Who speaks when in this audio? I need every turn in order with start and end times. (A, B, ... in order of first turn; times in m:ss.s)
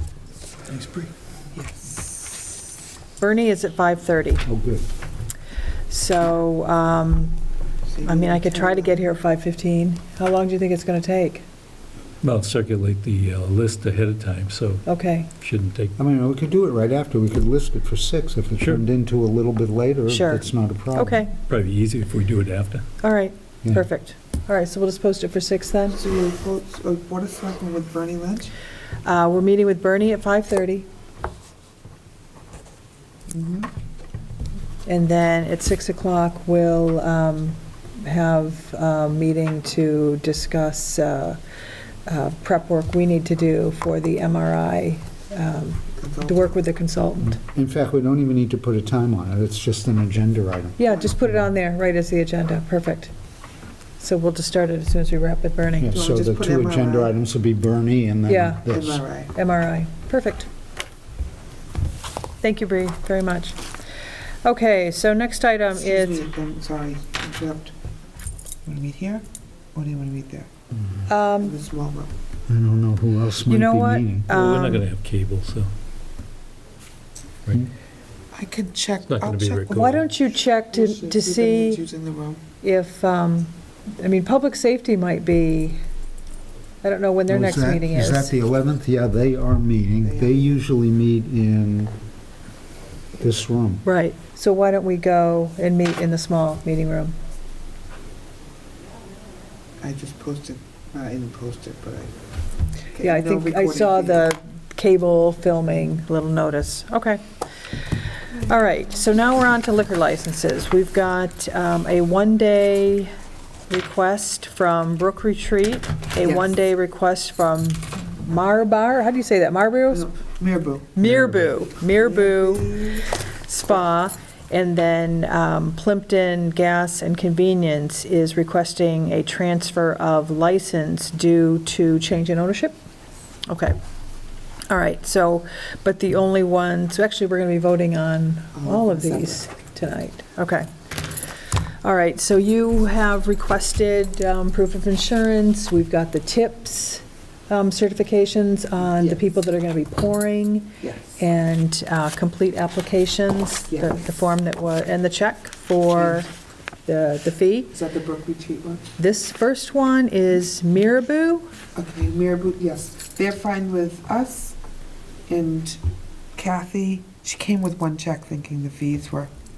0:00.7-0:02.3 A
0:03.2-0:04.4 B
0:04.4-0:04.8 C
0:05.9-0:07.3 B
0:07.9-0:09.0 A
0:08.0-0:11.4 B
0:12.2-0:14.8 D
0:14.9-0:15.3 B
0:15.4-0:16.0 D
0:16.0-0:21.2 C
0:20.1-0:21.4 B
0:21.5-0:22.9 D
0:23.0-0:26.0 B
0:25.9-0:28.5 A
0:29.0-0:30.9 B
0:33.3-0:33.7 A
0:34.9-0:41.4 B
0:42.1-0:47.4 B
0:46.0-0:46.6 A
0:47.3-0:50.8 C
0:50.8-0:53.1 B
0:54.0-0:55.9 B
0:55.8-0:59.0 C
0:55.9-0:57.1 A
0:58.3-0:58.7 B
0:58.7-0:59.3 A
0:59.3-1:00.5 B
1:02.4-1:03.6 B
1:04.4-1:06.3 B
1:05.7-1:07.7 A
1:08.6-1:10.5 A
1:10.7-1:11.1 C
1:11.1-1:11.6 B
1:11.4-1:12.1 A
1:12.5-1:14.6 C
1:13.4-1:14.9 B
1:14.3-1:15.7 D
1:18.3-1:19.9 A
1:19.1-1:20.0 D
1:19.7-1:21.8 B
1:20.7-1:22.4 A
1:22.6-1:25.8 B
1:26.8-1:28.4 B
1:27.3-1:31.9 C
1:30.0-1:30.5 A
1:33.2-1:33.8 C
1:33.8-1:37.1 B
1:39.8-1:42.2 A
1:43.0-1:44.3 A
1:43.0-1:47.2 B
1:48.3-1:53.1 B
1:53.7-2:00.1 B
1:56.2-1:56.5 A
1:59.9-2:01.0 A
2:01.0-2:12.8 B
2:01.0-2:01.4 D
2:01.6-2:03.1 A
2:13.5-2:13.8 B
2:14.7-2:20.7 B
2:18.6-2:19.4 A
2:21.8-2:36.3 B
2:28.9-2:29.2 A
2:30.8-2:31.2 A
2:36.0-2:36.2 A
2:36.9-2:37.7 B
2:37.7-2:38.9 A
2:39.0-2:41.5 B
2:41.8-2:44.6 A
2:45.3-2:45.8 A
2:46.4-2:49.3 A